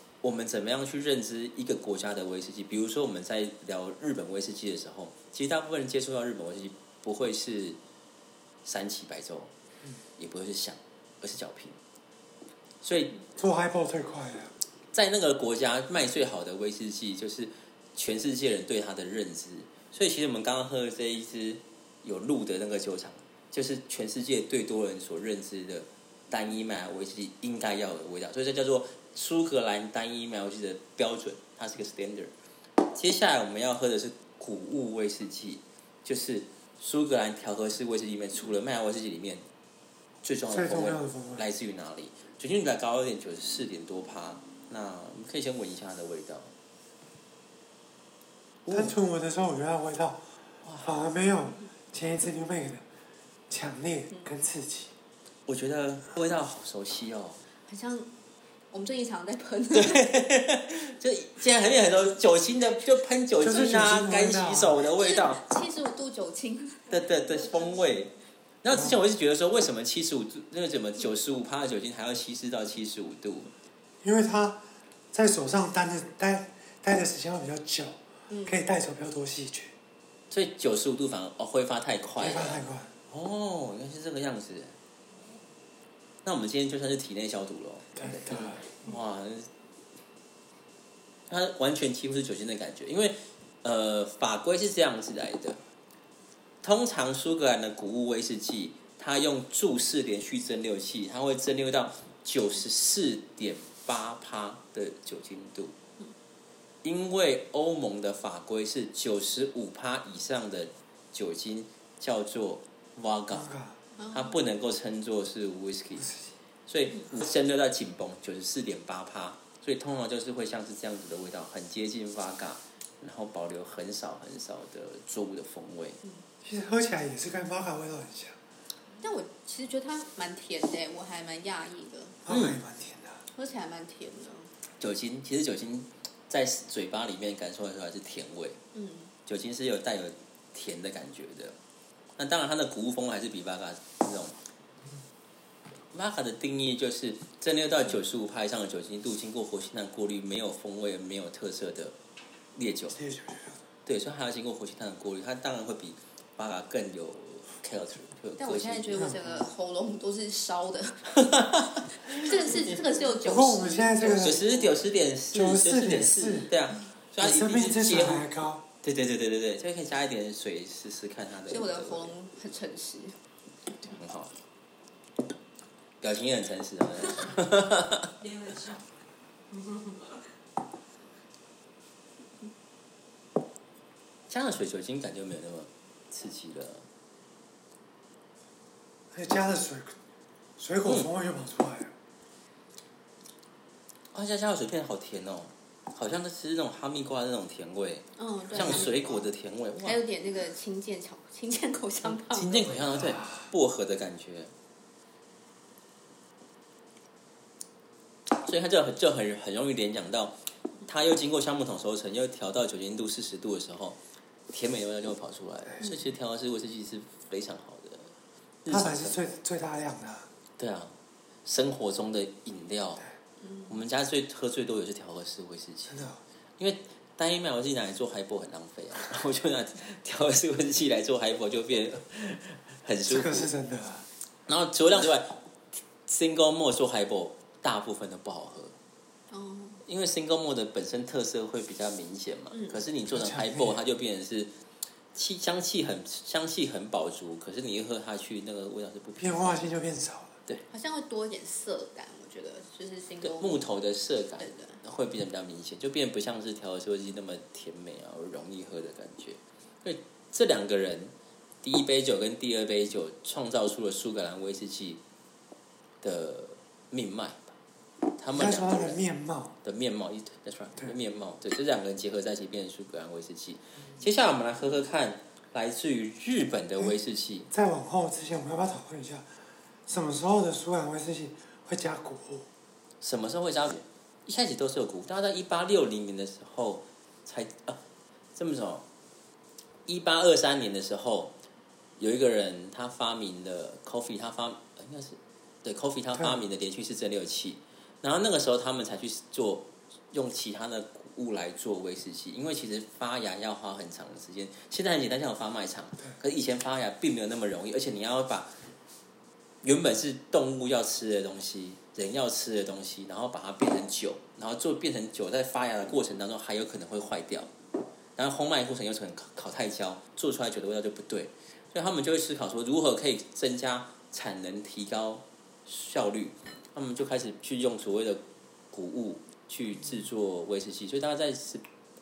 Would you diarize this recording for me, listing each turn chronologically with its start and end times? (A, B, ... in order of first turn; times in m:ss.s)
0:00.2-0:07.8 A
0:08.6-0:09.5 A
0:10.2-0:11.8 A
0:12.8-0:13.1 A
0:13.4-0:14.5 B
0:14.9-0:39.4 A
0:40.2-0:46.5 A
0:40.5-0:41.4 B
0:48.6-0:48.9 A
0:48.7-0:50.2 B
0:50.6-0:50.9 A
0:50.8-0:52.8 B
0:53.5-0:54.9 B
0:55.5-0:57.4 A
0:57.7-0:58.1 C
0:58.7-1:00.1 C
0:59.7-1:05.4 A
1:03.4-1:04.8 B
1:05.0-1:06.9 C
1:06.9-1:08.1 A
1:06.9-1:08.0 D
1:08.6-1:13.5 A
1:08.7-1:09.0 B
1:14.0-1:19.7 B
1:18.3-1:18.6 C
1:20.3-1:24.7 A
1:22.2-1:22.9 B
1:26.2-1:29.5 A
1:28.0-1:28.6 B
1:31.3-1:35.6 A
1:36.6-1:45.7 A
1:46.8-1:53.5 A
1:53.3-1:53.8 B
1:54.0-1:54.3 C
1:54.1-1:56.1 A
1:56.7-2:06.0 A
2:06.4-2:08.4 B
2:09.0-2:12.2 C
2:12.2-2:13.2 B
2:12.3-2:12.6 A
2:13.3-2:14.5 C
2:14.8-2:18.6 A
2:18.7-2:19.1 C
2:19.2-2:21.6 A
2:22.2-2:24.4 A
2:25.9-2:31.9 A
2:32.5-2:33.0 A
2:32.9-2:33.6 B
2:33.8-2:39.0 A
2:38.4-2:41.2 C
2:38.9-2:39.5 B
2:41.2-2:42.6 A
2:42.0-2:44.7 C
2:43.2-2:44.4 B
2:44.2-2:48.2 A
2:45.3-2:46.5 B
2:47.2-2:48.6 B
2:48.8-2:52.1 A
2:51.5-2:53.2 C
2:53.8-2:54.3 A
2:56.0-2:58.1 A
2:58.2-2:58.9 D
2:59.5-3:00.2 D
3:04.3-3:06.8 A
3:09.1-3:09.9 B
3:10.6-3:11.9 B
3:14.1-3:20.0 A
3:18.2-3:19.3 C
3:19.8-3:22.8 C
3:22.2-3:24.5 A
3:23.0-3:23.4 B
3:28.3-3:34.0 A
3:34.5-3:38.1 A
3:38.6-3:39.2 A
3:38.7-3:40.3 B
3:40.6-3:40.9 A
3:41.4-3:43.0 A
3:43.7-3:45.9 A
3:45.9-3:46.2 B
3:46.6-3:53.5 A
3:53.1-3:54.0 B
3:54.5-3:55.3 A
3:56.1-3:58.8 A
3:59.3-3:59.8 C
3:59.8-4:04.5 A
4:02.5-4:02.8 C
4:03.1-4:03.8 B
4:05.1-4:09.7 A
4:09.2-4:10.4 B
4:10.7-4:13.6 C
4:13.2-4:25.0 A
4:14.4-4:14.8 C
4:26.0-4:27.6 A
4:28.2-4:29.0 A
4:28.3-4:29.5 B
4:29.6-4:37.5 A
4:37.5-4:39.3 B
4:39.9-4:42.5 B
4:43.0-4:47.8 A
4:48.3-4:48.8 A
4:49.8-4:51.3 A
4:52.0-5:08.5 A
5:09.6-5:17.5 A
5:18.2-5:31.6 A